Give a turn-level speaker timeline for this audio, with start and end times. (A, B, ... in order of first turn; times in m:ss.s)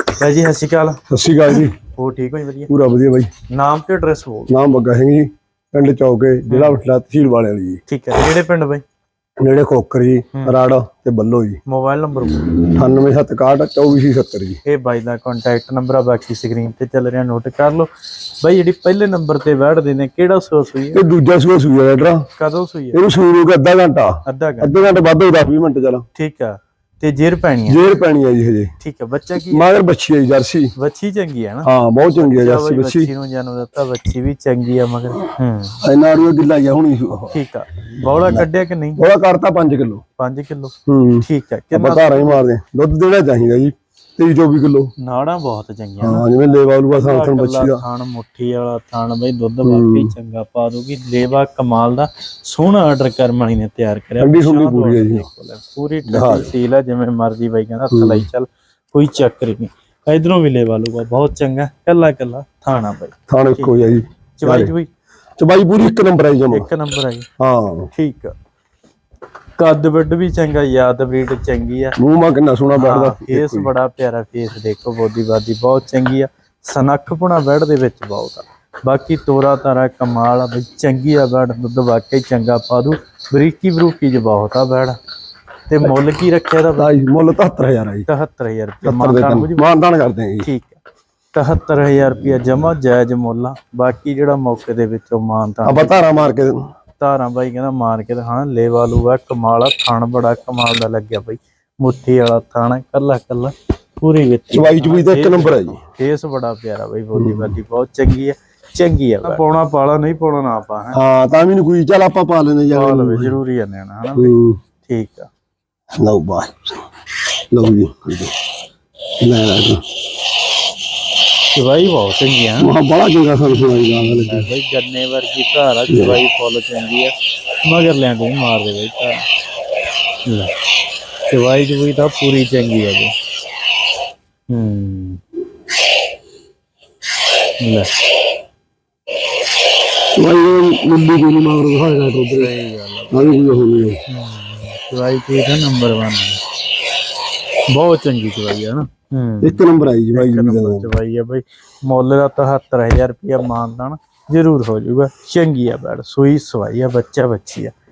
0:00.2-0:02.7 A
0:01.1-0:01.7 B
0:02.7-0:03.3 B
0:03.5-0:04.5 A
0:04.5-0:07.8 B
0:06.5-0:06.8 A
0:07.9-0:08.8 A
0:09.4-0:11.6 B
0:11.6-0:12.5 A
0:12.6-0:14.6 B
0:14.6-0:17.9 A
0:18.4-0:21.0 A
0:20.9-0:22.2 B
0:22.4-0:23.0 A
0:22.9-0:26.0 B
0:24.2-0:24.8 A
0:26.1-0:27.9 A
0:27.7-0:28.7 B
0:28.8-0:29.6 A
0:29.4-0:30.7 B
0:30.8-0:35.8 A
0:31.6-0:33.1 B
0:35.8-0:37.4 B
0:37.3-0:39.0 A
0:38.0-0:40.0 B
0:40.2-0:42.4 A
0:40.9-0:44.9 B
0:45.0-0:46.2 A
0:46.0-0:47.8 B
0:46.9-1:04.9 A
0:49.6-0:50.1 B
0:54.2-0:55.3 B
0:56.1-0:56.5 B
0:57.9-0:58.3 B
1:03.3-1:04.7 B
1:05.4-1:06.7 B
1:06.5-1:07.3 A
1:07.4-1:07.9 B
1:07.9-1:08.3 A
1:09.6-1:12.0 A
1:12.0-1:13.7 B
1:12.7-1:25.0 A
1:25.7-1:26.9 A
1:26.8-1:28.1 B
1:28.1-1:29.6 A
1:28.8-1:30.5 B
1:30.4-1:30.8 A
1:31.3-1:36.0 A
1:35.6-1:36.6 B
1:37.0-1:51.0 A
1:44.5-1:45.8 B
1:47.2-1:47.6 B
1:50.9-1:53.4 B
1:52.7-1:55.3 A
1:54.2-1:54.6 B
1:56.0-1:56.8 B
1:57.5-1:58.3 B
1:59.2-1:59.8 B
2:01.5-2:02.7 A
2:02.6-2:04.5 B
2:03.4-2:09.2 A
2:05.9-2:06.2 B
2:10.2-2:10.5 A
2:11.3-2:13.1 A
2:14.5-2:15.2 A
2:17.6-2:17.9 A
2:20.1-2:22.5 B
2:22.3-2:23.3 A
2:23.1-2:24.0 B
2:24.1-2:26.4 A
2:27.7-2:29.6 A
2:29.4-2:30.9 B
2:30.1-2:37.7 A